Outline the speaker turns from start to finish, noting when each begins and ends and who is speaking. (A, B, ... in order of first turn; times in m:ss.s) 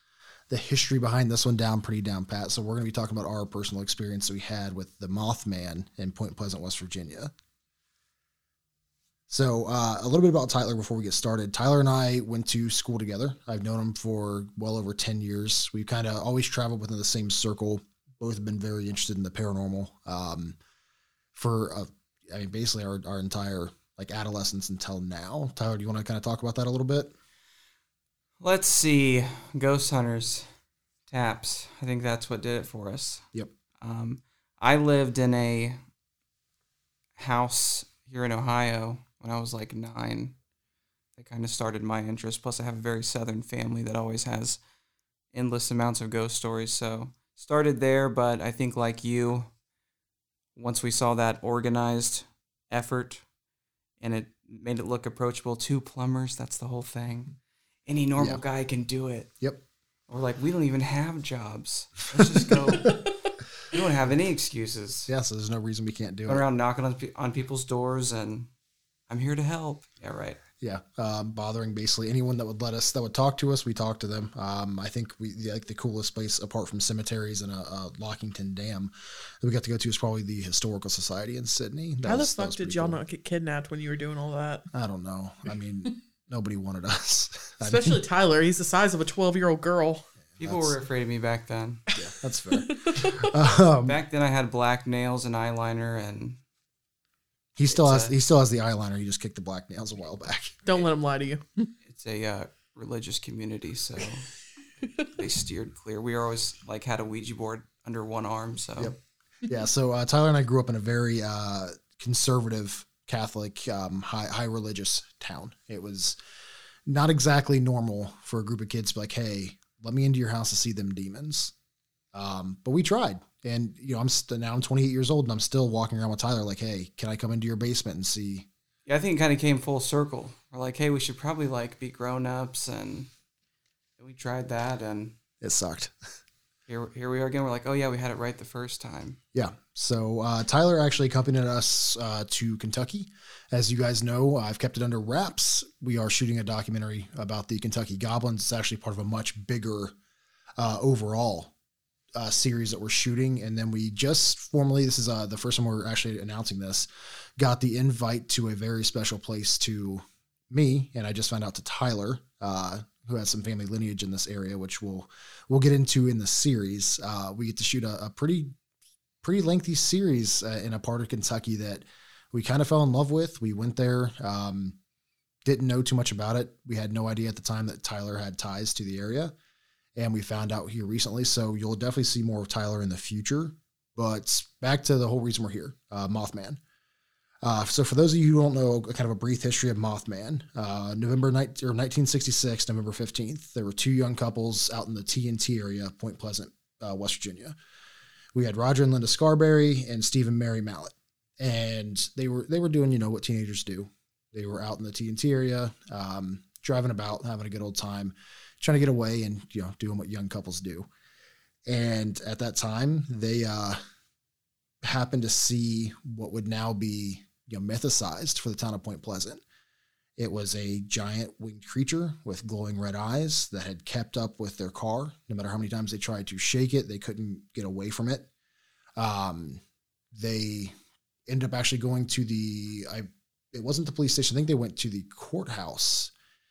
0:00.5-0:07.3 A
0:09.3-0:20.6 A
0:21.3-0:27.1 A
0:28.4-0:30.5 B
0:31.1-0:33.2 B
0:33.8-0:35.8 B
0:37.2-0:40.4 B
0:41.2-0:44.6 B
0:45.3-0:49.5 B
0:50.6-0:53.2 B
0:54.0-0:57.4 B
0:57.9-0:59.3 B
0:58.2-0:58.4 A
1:00.1-1:03.0 B
1:03.7-1:05.1 B
1:05.1-1:06.4 A
1:06.3-1:08.5 B
1:09.1-1:10.4 B
1:10.6-1:23.0 A
1:22.0-1:24.6 C
1:24.7-1:28.0 A
1:27.6-1:30.1 C
1:30.3-1:30.8 A
1:30.4-1:31.8 B
1:31.9-1:34.0 A
1:32.7-1:33.2 C
1:33.8-1:36.4 B
1:37.6-1:40.6 A
1:37.7-1:38.1 B
1:40.6-1:41.7 C
1:41.9-1:44.3 B
1:44.8-1:49.0 B
1:48.8-1:56.2 A
1:56.9-2:01.5 A
2:02.1-2:08.5 A
2:08.9-2:13.1 B
2:14.0-2:15.2 B
2:15.4-2:16.0 A
2:16.7-2:19.2 B
2:19.3-2:30.0 A
2:30.6-2:31.5 A
2:32.2-2:48.6 A
2:49.2-2:54.8 A
2:55.4-2:59.3 A
3:00.0-3:06.6 A
3:07.4-3:17.6 A
3:18.3-3:30.9 A
3:31.7-3:33.8 A
3:34.8-3:39.4 A
3:40.2-3:48.3 A
3:49.0-3:49.6 A
3:50.1-3:50.7 A
3:51.3-3:56.1 A